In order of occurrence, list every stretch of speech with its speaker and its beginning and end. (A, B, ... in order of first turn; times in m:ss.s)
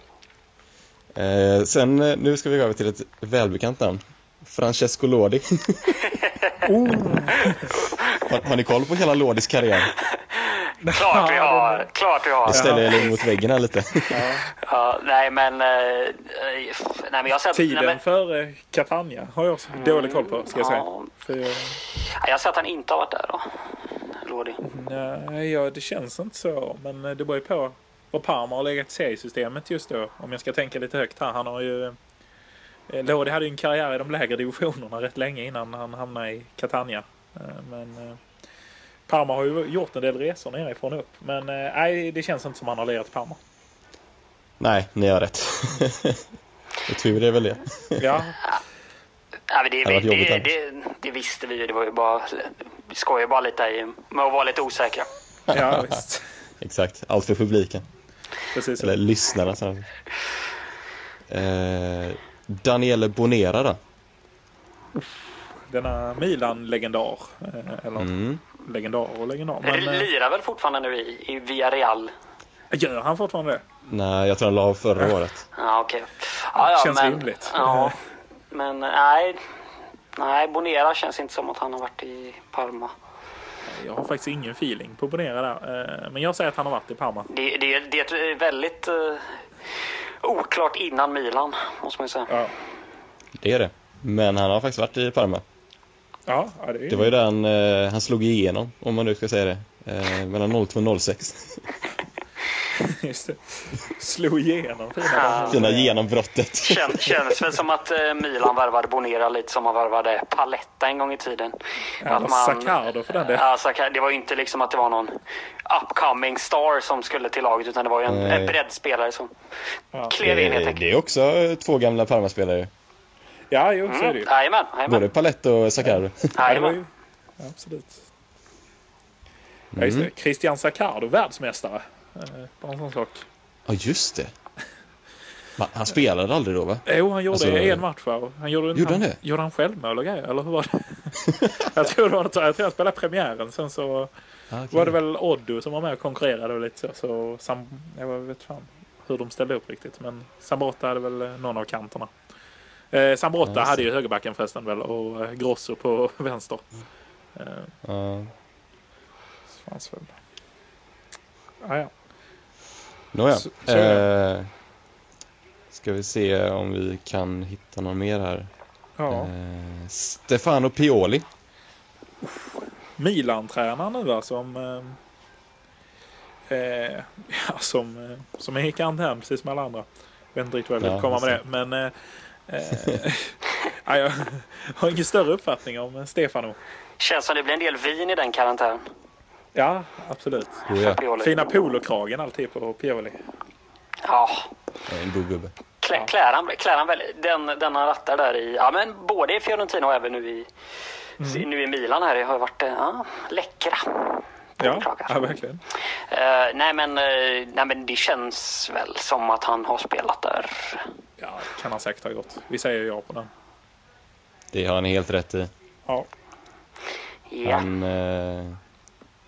0:01.1-0:06.0 A
0:06.2-0:06.6 B
0:06.6-0:07.7 C
0:07.8-0:08.2 B
0:08.1-0:09.9 A
0:10.0-0:13.0 B
0:10.8-0:11.9 C
0:12.4-0:14.3 A
0:12.5-0:13.2 C
0:14.1-0:14.5 C
0:14.6-0:18.0 B
0:17.5-0:21.8 C
0:19.7-0:21.1 B
0:22.0-0:23.5 B
0:24.2-0:24.6 B
0:24.6-0:32.0 C
0:32.9-0:38.2 C
0:39.1-0:43.4 C
0:44.6-0:46.2 A
0:46.9-0:48.2 A
0:48.0-0:48.4 C
0:49.5-0:55.1 B
0:49.8-0:50.5 A
0:55.5-0:56.0 A
0:55.5-0:56.2 C
0:56.6-0:57.8 A
0:58.5-0:59.0 C
0:58.8-0:59.9 A
1:01.3-1:03.8 A
1:05.7-1:10.1 C
1:08.0-1:08.4 A
1:09.6-1:12.1 B
1:12.7-1:13.6 C
1:13.8-1:15.4 A
1:15.6-1:18.0 B
1:16.5-1:18.0 C
1:18.5-1:19.4 B
1:20.2-1:22.9 B
1:23.6-1:27.3 C
1:27.3-1:29.4 B
1:30.2-1:32.3 B
1:33.4-1:35.4 A
1:36.3-1:37.1 C
1:36.9-1:41.6 A
1:42.7-1:46.0 C
1:45.1-1:45.6 B
1:45.5-1:47.4 A
1:46.6-1:59.3 B
1:52.0-1:53.4 C
1:58.1-1:58.6 A
2:00.1-2:00.8 B
2:00.2-2:02.7 A
2:03.5-2:04.3 C
2:03.9-2:05.0 B
2:04.9-2:06.3 A
2:05.8-2:06.9 C
2:06.3-2:06.8 B
2:07.4-2:08.0 C
2:09.7-2:10.1 A
2:09.8-2:13.2 C
2:13.7-2:14.3 A
2:15.6-2:17.8 A
2:16.8-2:24.1 C
2:18.7-2:19.2 A
2:24.5-2:25.0 A
2:24.7-2:32.1 C
2:32.9-2:36.7 C
2:33.4-2:33.8 A
2:37.4-2:37.7 C
2:37.8-2:38.3 A
2:39.5-2:40.1 C
2:41.6-2:41.9 C
2:43.1-2:44.5 A
2:43.3-2:44.0 C
2:45.7-2:48.5 A
2:49.0-2:49.3 C
2:49.1-2:51.3 A
2:52.2-2:55.0 C
2:56.5-3:01.9 C
3:00.8-3:01.4 A
3:02.5-3:06.6 C
3:07.0-3:08.8 B
3:09.5-3:13.2 C
3:10.7-3:11.0 A
3:10.7-3:11.4 B
3:14.0-3:14.5 B
3:14.9-3:15.5 A
3:15.8-3:20.5 B
3:21.2-3:21.5 C
3:21.2-3:25.4 B
3:24.6-3:25.6 C
3:26.1-3:30.9 B
3:31.2-3:33.3 C
3:34.5-3:35.5 A
3:37.3-3:37.7 B
3:37.4-3:38.6 A